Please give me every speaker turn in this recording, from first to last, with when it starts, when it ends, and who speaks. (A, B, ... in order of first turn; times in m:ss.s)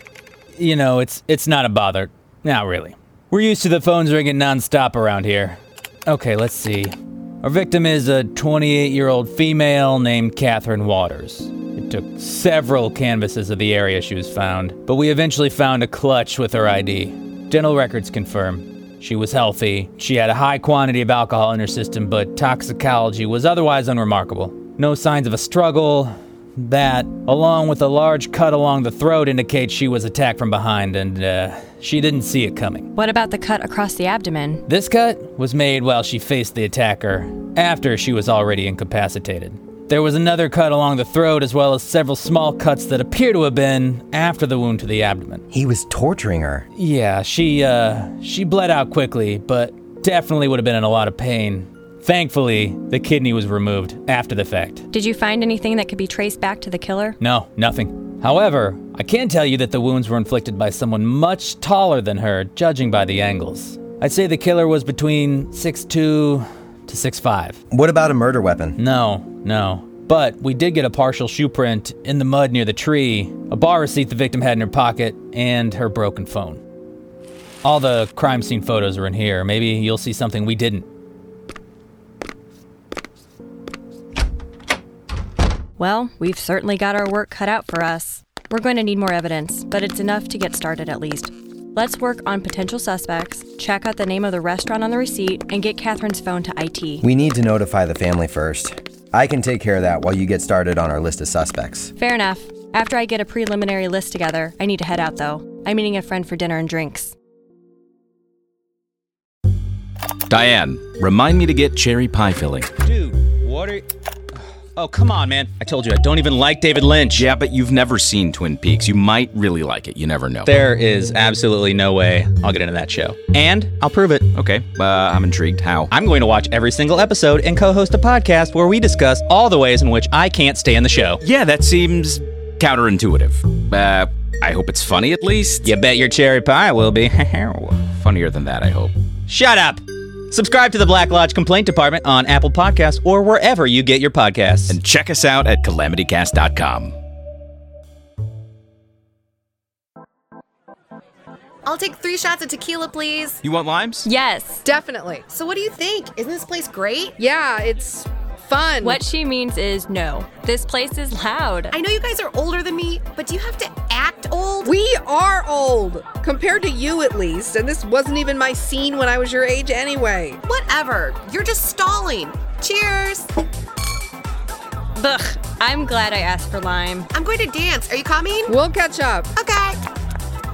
0:00.6-0:32.9 A
0:32.9-0:34.6 B
0:34.6-0:45.4 A
0:45.5-0:46.7 C
0:46.8-0:54.8 A
0:54.9-0:57.2 B
0:57.2-1:07.6 A
1:07.7-1:08.8 C
1:08.8-1:16.6 A
1:17.6-1:20.8 A
1:25.8-1:37.0 B
1:37.0-1:41.9 C
1:42.0-1:47.1 B
1:50.3-1:52.7 D
1:52.8-1:53.9 A
1:54.8-1:57.2 A
1:57.1-2:00.5 D
2:00.4-2:04.3 A
2:04.3-2:05.9 D
2:05.9-2:11.2 A
2:11.2-2:15.7 D
2:15.6-2:17.8 A
2:17.9-2:18.9 D
2:19.3-2:24.8 A
2:24.7-2:26.9 D
2:31.6-2:33.4 E
2:33.4-2:34.1 D
2:34.0-2:34.6 B
2:34.6-2:35.2 F
2:35.3-2:37.2 E
2:37.2-2:39.0 F
2:38.8-2:41.8 B
2:41.7-2:44.7 E
2:44.6-2:50.4 F
2:50.4-2:53.3 E
2:54.9-2:57.1 B
2:57.1-2:58.6 E
2:58.5-2:59.3 F
2:59.4-2:59.8 E